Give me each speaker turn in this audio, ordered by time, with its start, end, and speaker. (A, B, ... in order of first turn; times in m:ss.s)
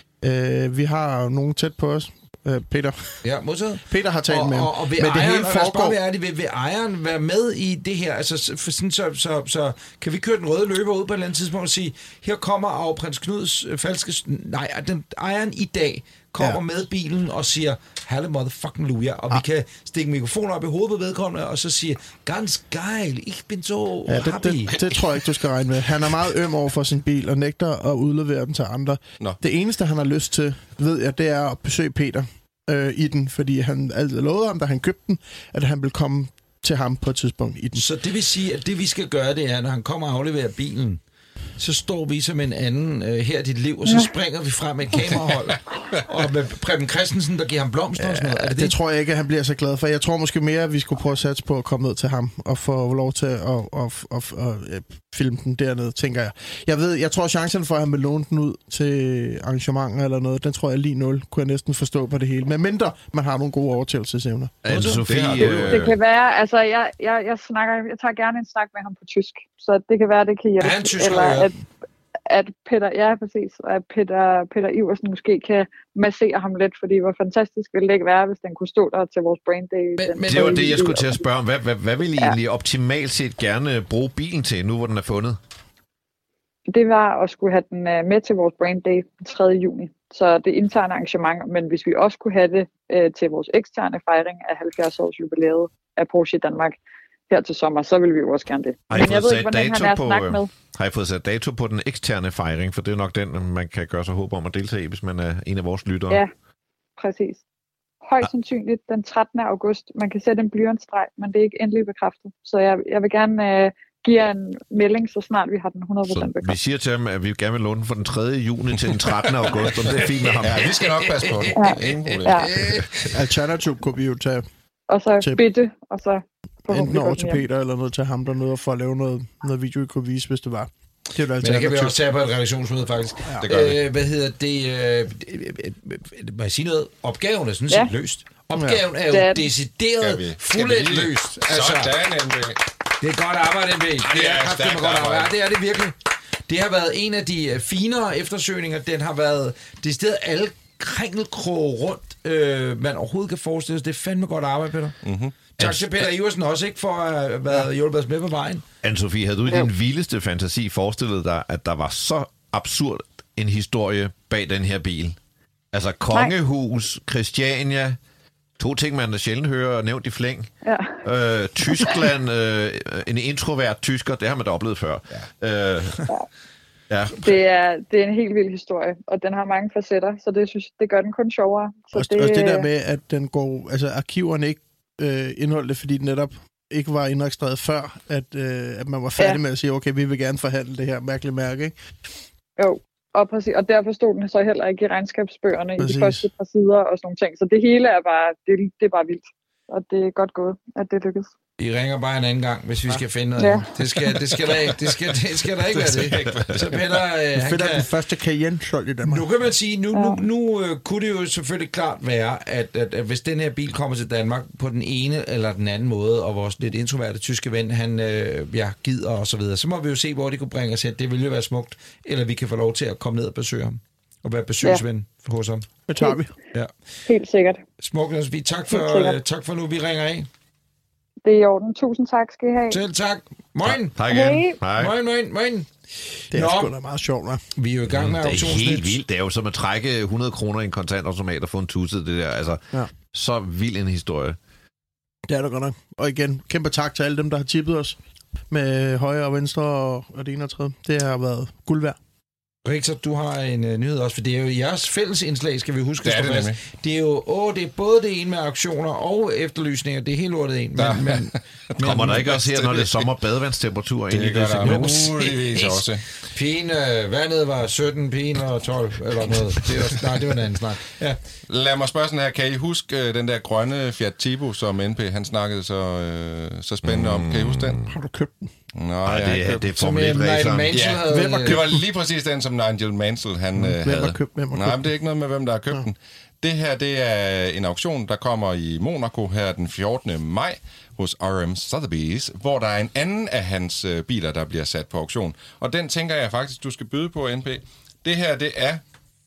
0:00.2-0:03.2 A
0:03.2-0:24.8 B
0:03.9-0:06.0 A
0:24.1-0:37.8 A
0:37.7-0:41.0 B
0:41.6-0:48.7 B
0:48.0-1:04.5 A
1:04.6-1:06.0 C
1:04.7-1:05.4 B
1:04.7-1:06.0 D
1:05.7-1:11.5 E
1:10.6-1:11.5 B
1:12.3-1:21.2 E
1:20.0-1:20.9 B
1:20.3-1:25.4 C
1:26.7-1:36.8 E
1:37.3-1:40.5 E
1:38.9-1:46.2 C
1:47.0-1:47.4 E
1:48.0-1:56.5 E
1:56.1-2:00.7 C
1:59.4-2:02.8 D
2:00.6-2:03.1 B
2:01.5-2:02.5 E
2:03.1-2:04.4 A
2:04.9-2:07.4 E
2:06.7-2:12.0 A
2:11.4-2:22.0 B
2:13.4-2:13.8 D
2:18.6-2:18.8 A
2:19.1-2:19.5 E
2:20.0-2:22.6 D
2:23.0-2:25.9 B
2:24.0-2:25.3 D
2:26.5-2:35.0 B
2:35.0-2:35.4 D
2:35.6-2:38.6 B
2:35.6-2:35.9 C
2:38.8-2:45.2 C
2:45.7-2:48.0 C
2:48.6-2:50.5 C
2:50.6-2:51.0 E
2:51.0-2:56.0 C
2:56.9-2:57.3 C
2:57.2-3:02.7 E
3:01.9-3:11.7 A
3:12.6-3:21.3 E
3:15.8-3:16.3 A
3:21.6-3:27.9 B
3:23.4-3:23.7 E
3:25.7-3:26.8 D
3:27.3-3:29.3 A
3:29.0-3:45.7 B
3:29.9-3:30.2 E
3:45.9-3:46.3 A
3:47.1-3:47.6 E
3:47.8-3:50.3 B
3:48.7-3:49.2 E
3:51.2-3:52.8 E
3:52.7-3:54.0 B
3:53.6-3:54.9 C
3:54.0-3:54.6 E
3:54.7-3:56.7 B
3:56.3-3:57.4 A
3:57.6-3:59.0 B
3:57.9-4:04.4 C
4:05.3-4:08.0 A
4:08.5-4:12.0 A
4:12.6-4:22.7 B
4:16.0-4:16.6 D
4:20.8-4:21.4 D
4:21.8-4:25.1 C
4:24.1-4:26.0 D
4:24.6-4:31.2 B
4:31.5-4:37.8 D
4:36.8-4:37.9 C
4:37.9-4:38.5 A
4:38.7-4:39.6 D
4:39.0-4:40.8 C
4:39.7-4:41.6 B
4:40.7-4:58.8 D
4:41.1-4:41.8 A
4:43.6-4:44.9 A